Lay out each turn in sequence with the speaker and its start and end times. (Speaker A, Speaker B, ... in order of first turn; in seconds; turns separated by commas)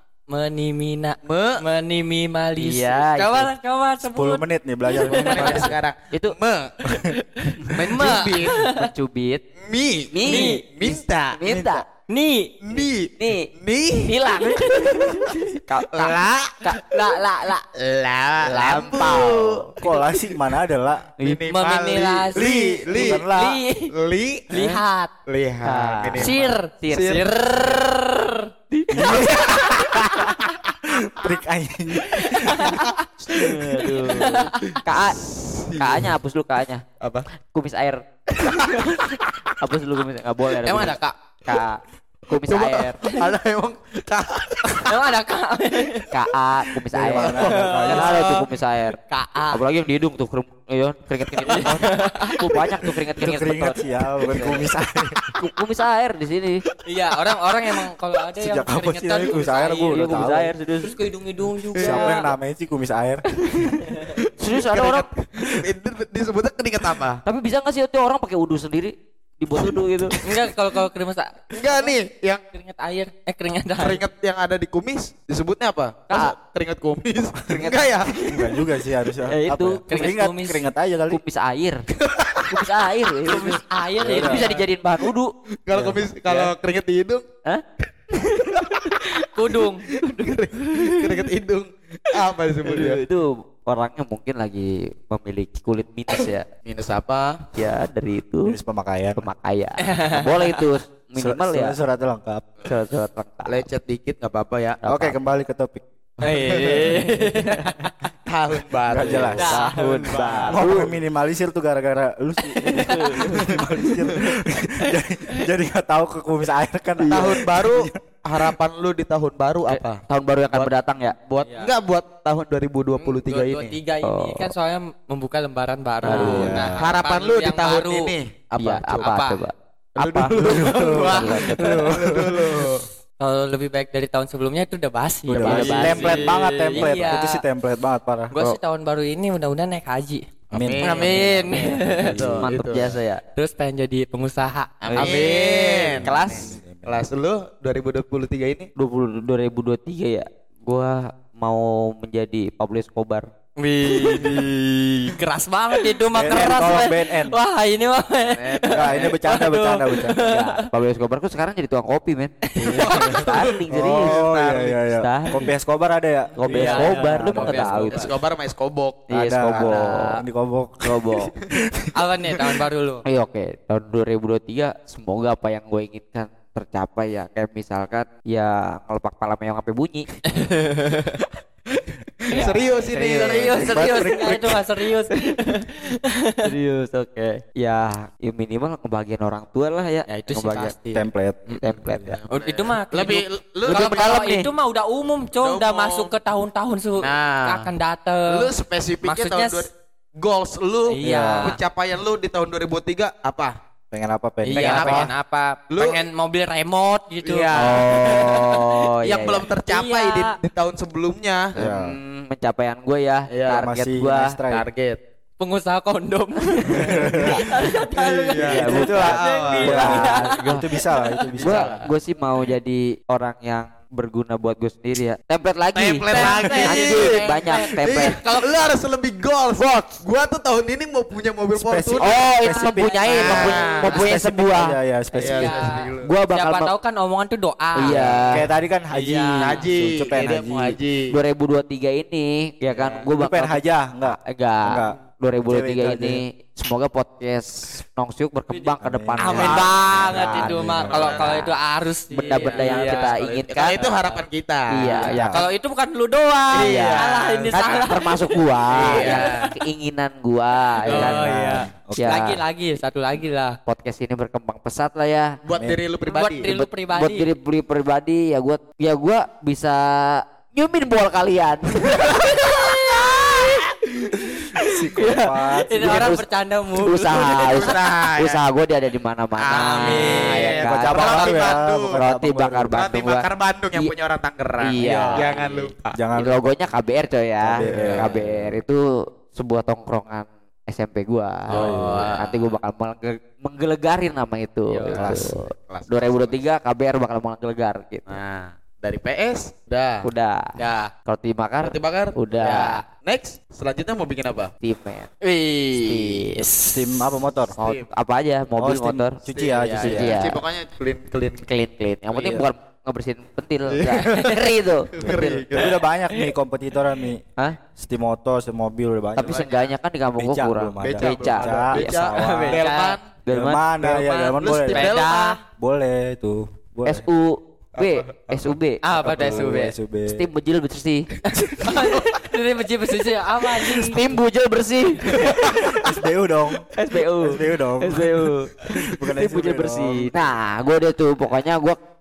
Speaker A: 0.3-5.7, Speaker B: 1.2-1.6, Speaker C: 2.5-3.5, Speaker D: 4.0-5.7, Speaker B: 5.0-6.9, Speaker D: 6.8-7.2, Speaker A: 7.1-8.9, Speaker B: 7.6-8.7, Speaker C: 8.5-9.4, Speaker B: 9.6-11.8, Speaker C: 10.1-11.8, Speaker A: 10.2-10.6, Speaker A: 12.1-12.6, Speaker B: 12.6-14.2, Speaker C: 12.8-13.5, Speaker C: 14.0-16.9, Speaker A: 14.4-15.3, Speaker B: 15.1-16.7, Speaker A: 16.7-17.6, Speaker B: 17.7-19.7, Speaker C: 18.4-19.7, Speaker D: 19.8-21.1, Speaker B: 21.2-23.2, Speaker A: 21.5-23.9, Speaker D: 22.4-23.6, Speaker B: 23.9-24.5, Speaker A: 24.5-25.1, Speaker C: 24.5-24.8, Speaker B: 25.3-27.3, Speaker C: 25.6-27.2, Speaker A: 26.2-28.5, Speaker C: 28.7-29.3, Speaker D: 28.9-32.8, Speaker B: 29.1-29.8, Speaker A: 32.2-34.8, Speaker B: 32.6-36.1, Speaker C: 33.2-35.2, Speaker C: 35.7-43.0, Speaker B: 37.0-37.3, Speaker B: 38.3-39.1, Speaker A: 40.6-41.1, Speaker B: 42.3-45.0, Speaker A: 44.9-46.1, Speaker C: 46.1-49.0, Speaker D: 46.9-48.2, Speaker A: 47.2-48.4, Speaker A: 49.1-49.6, Speaker C: 49.5-54.7, Speaker A: 51.4-52.6, Speaker D: 53.2-55.3, Speaker C: 55.4-56.6, Speaker A: 56.9-60.3, Speaker D: 58.4-60.5, Speaker C: 59.9-61.0, Speaker A: 60.8-62.3, Speaker B: 61.8-62.1, Speaker D: 61.8-63.9, Speaker A: 63.7-64.1, Speaker B: 64.1-67.2, Speaker C: 64.4-65.0, Speaker C: 67.2-70.2, Speaker A: 70.2-72.0, Speaker B: 71.5-72.4, Speaker A: 72.5-74.0, Speaker B: 73.8-78.2, Speaker C: 77.5-78.2, Speaker D: 78.3-81.2, Speaker C: 79.3-80.1, Speaker A: 79.9-80.6, Speaker C: 81.1-81.8, Speaker B: 82.0-82.6, Speaker C: 82.5-85.3, Speaker A: 83.3-84.6, Speaker D: 84.0-84.4, Speaker B: 85.7-87.2, Speaker D: 85.7-86.0, Speaker C: 87.4-88.7, Speaker B: 88.2-93.0, Speaker A: 89.3-89.8, Speaker C: 90.2-91.0, Speaker C: 92.6-96.5, Speaker B: 96.6-97.5, Speaker C: 97.5-98.6, Speaker D: 98.4-99.3, Speaker C: 99.2-101.8, Speaker A: 99.8-100.6, Speaker D: 101.2-102.5, Speaker C: 102.6-103.6, Speaker B: 103.5-104.8, Speaker C: 104.8-105.2, Speaker D: 104.8-105.8, Speaker B: 106.2-107.2, Speaker A: 106.2-107.9, Speaker B: 108.2-110.6, Speaker D: 108.9-109.6, Speaker C: 109.4-110.9, Speaker A: 109.4-110.5, Speaker D: 110.5-118.0, Speaker A: 112.5-114.0, Speaker C: 112.8-113.4, Speaker B: 117.0-123.8, Speaker C: 119.7-121.2, Speaker A: 121.4-121.7, Speaker A: 123.0-128.1, Speaker C: 124.0-124.5, Speaker C: 126.0-126.6, Speaker D: 126.1-127.0, Speaker B: 126.1-129.2, Speaker C: 128.6-131.9, Speaker A: 129.0-129.4, Speaker B: 129.9-132.8, Speaker D: 130.3-132.6, Speaker A: 130.5-132.2, Speaker A: 133.2-137.4, Speaker D: 135.3-138.3, Speaker C: 135.3-136.3, Speaker B: 135.5-136.1, Speaker A: 138.3-140.2, Speaker B: 140.5-142.9, Speaker D: 140.5-142.5, Speaker A: 140.8-142.2, Speaker C: 142.4-143.2, Speaker A: 143.3-145.8, Speaker B: 144.8-148.7, Speaker C: 144.8-145.4, Speaker D: 145.9-147.0, Speaker C: 146.0-146.5, Speaker C: 148.8-153.3, Speaker A: 153.6-154.5, Speaker D: 153.9-154.7, Speaker B: 154.2-154.5, Speaker A: 155.1-160.7, Speaker D: 156.1-157.4, Speaker B: 158.2-159.1, Speaker D: 158.7-160.4, Speaker C: 160.2-162.3, Speaker A: 162.5-163.4, Speaker D: 162.6-167.8, Speaker B: 162.7-164.7, Speaker C: 162.9-165.5, Speaker C: 166.4-168.1, Speaker A: 166.5-168.1, Speaker B: 167.8-169.1, Speaker C: 169.1-170.2, Speaker D: 169.1-172.5, Speaker A: 169.7-170.1, Speaker C: 170.8-171.3, Speaker A: 171.9-173.0, Speaker C: 173.0-180.1, Speaker A: 180.3-181.2, Speaker B: 182.2-183.9, Speaker A: 182.3-186.5, Speaker C: 183.2-183.6, Speaker D: 183.3-184.6, Speaker C: 186.4-190.7, Speaker A: 190.1-191.6, Speaker D: 190.9-192.2, Speaker C: 191.6-192.2, Speaker B: 192.1-194.1, Speaker A: 192.3-198.5, Speaker C: 193.7-194.5, Speaker B: 195.4-196.1, Speaker B: 197.0-197.7, Speaker B: 198.3-203.6, Speaker A: 199.0-199.7, Speaker A: 200.9-201.6, Speaker D: 201.0-201.6, Speaker D: 203.9-205.1, Speaker A: 204.4-208.6, Speaker B: 204.5-205.1, Speaker B: 205.7-206.0, Speaker B: 207.2-208.4, Speaker D: 207.5-208.4, Speaker C: 207.6-209.5, Speaker B: 209.0-211.6, Speaker A: 209.7-210.3, Speaker D: 211.5-212.0, Speaker C: 211.6-214.4, Speaker B: 213.3-213.7, Speaker D: 213.5-214.7, Speaker B: 214.5-215.0, Speaker A: 215.4-221.2, Speaker D: 216.7-217.5, Speaker B: 216.9-220.1, Speaker D: 218.3-221.8, Speaker C: 218.4-220.7, Speaker B: 221.4-221.9, Speaker C: 221.4-228.2, Speaker B: 225.7-232.1, Speaker A: 226.1-228.6, Speaker D: 231.5-235.6, Speaker C: 232.0-234.8, Speaker A: 232.4-234.2, Speaker B: 233.1-233.9, Speaker B: 235.2-236.1, Speaker A: 235.2-238.4, Speaker C: 236.0-236.7, Speaker C: 237.7-238.4, Speaker B: 237.8-238.3, Speaker D: 238.3-240.8, Speaker A: 239.0-239.6, Speaker B: 239.3-241.1, Speaker C: 241.1-251.5, Speaker B: 242.7-243.0, Speaker D: 243.1-246.2, Speaker A: 248.5-253.2, Speaker D: 248.8-251.3, Speaker B: 249.6-251.5, Speaker C: 252.1-253.8, Speaker B: 252.3-255.2, Speaker A: 253.7-254.2, Speaker C: 254.7-255.4, Speaker A: 254.8-259.6, Speaker D: 255.1-255.4, Speaker B: 256.5-257.9, Speaker C: 256.5-261.3, Speaker B: 258.7-259.5, Speaker A: 260.8-263.6, Speaker D: 260.9-262.2, Speaker C: 261.9-262.4, Speaker C: 263.7-265.4, Speaker B: 265.4-266.5, Speaker A: 266.1-267.3, Speaker C: 266.4-273.6, Speaker A: 272.1-273.6, Speaker A: 274.2-277.8, Speaker D: 274.5-276.2, Speaker C: 275.7-283.9, Speaker B: 277.2-278.4, Speaker B: 279.4-282.0, Speaker A: 279.5-280.6, Speaker D: 280.6-282.8, Speaker B: 282.7-286.0, Speaker C: 284.6-285.3, Speaker A: 284.8-285.5, Speaker D: 285.9-286.4, Speaker C: 286.1-298.1, Speaker D: 287.4-288.5, Speaker B: 287.6-288.1, Speaker B: 291.5-292.5, Speaker D: 291.5-292.1, Speaker A: 294.7-295.1, Speaker D: 294.9-295.3, Speaker B: 295.0-296.4, Speaker B: 298.1-300.1, Speaker C: 300.0-302.8, Speaker A: 300.6-300.9, Speaker B: 301.6-304.5, Speaker A: 302.3-302.8, Speaker C: 304.6-305.1, Speaker A: 305.2-307.0, Speaker C: 305.8-306.4, Speaker D: 306.6-307.5, Speaker B: 307.5-307.9, Speaker C: 307.6-309.2, Speaker D: 308.6-310.2, Speaker B: 309.3-311.5, Speaker A: 309.6-310.1, Speaker C: 309.8-310.4, Speaker C: 311.5-315.4, Speaker B: 313.7-314.4, Speaker A: 313.9-314.4, Speaker B: 314.9-315.8, Speaker D: 315.0-317.2, Speaker D: 317.8-319.4, Speaker C: 319.2-322.0, Speaker B: 319.2-319.7, Speaker D: 320.2-322.6, Speaker B: 320.8-323.1, Speaker A: 321.8-323.0, Speaker C: 323.1-323.7, Speaker D: 323.3-325.0, Speaker B: 323.8-325.4, Speaker A: 324.7-325.4, Speaker D: 325.6-327.1, Speaker C: 326.9-329.5, Speaker B: 327.8-328.4, Speaker A: 328.8-329.7, Speaker D: 328.9-330.2, Speaker C: 330.1-331.1, Speaker A: 331.3-334.0, Speaker C: 333.7-335.7, Speaker B: 335.1-335.6, Speaker D: 335.3-336.7, Speaker C: 336.7-341.8, Speaker D: 337.2-340.2